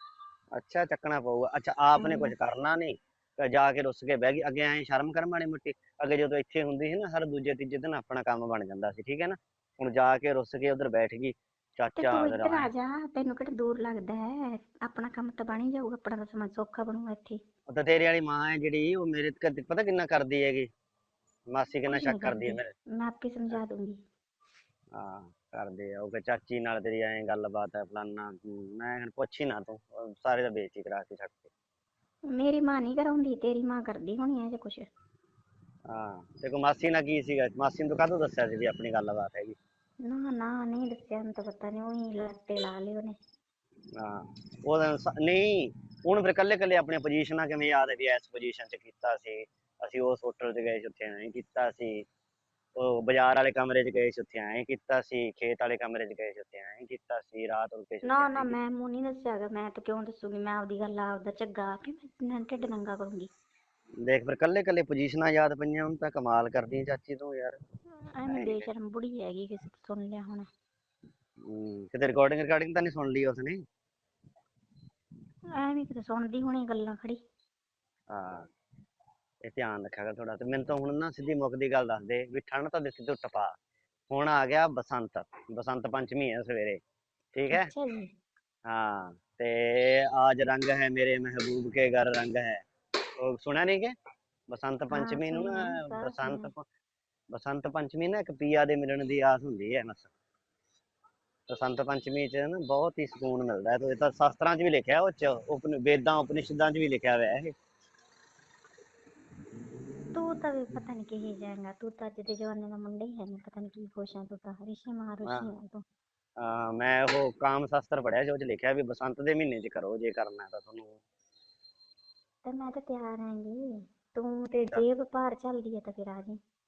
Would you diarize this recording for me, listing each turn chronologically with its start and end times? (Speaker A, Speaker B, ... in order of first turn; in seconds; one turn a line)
Speaker A: 0.5-12.7
Speaker B: 2.0-2.3
Speaker B: 12.0-17.4
Speaker A: 17.7-20.7
Speaker A: 21.5-22.7
Speaker B: 21.9-24.0
Speaker A: 24.9-31.5
Speaker B: 32.3-34.9
Speaker A: 35.9-39.5
Speaker B: 40.0-43.1
Speaker A: 44.0-52.0
Speaker A: 52.8-58.5
Speaker B: 58.0-63.3
Speaker A: 64.0-67.6
Speaker B: 68.0-70.5
Speaker A: 68.3-68.7
Speaker A: 71.4-73.6
Speaker B: 75.6-77.2
Speaker A: 78.1-78.5
Speaker A: 79.4-83.5
Speaker A: 84.1-86.8
Speaker A: 87.3-87.7
Speaker B: 87.5-88.1
Speaker A: 88.7-92.6
Speaker A: 93.2-93.9
Speaker A: 94.5-96.6
Speaker B: 94.9-96.5
Speaker A: 97.3-100.1
Speaker A: 101.5-107.5
Speaker B: 110.1-115.8
Speaker A: 116.4-121.0
Speaker B: 122.4-126.4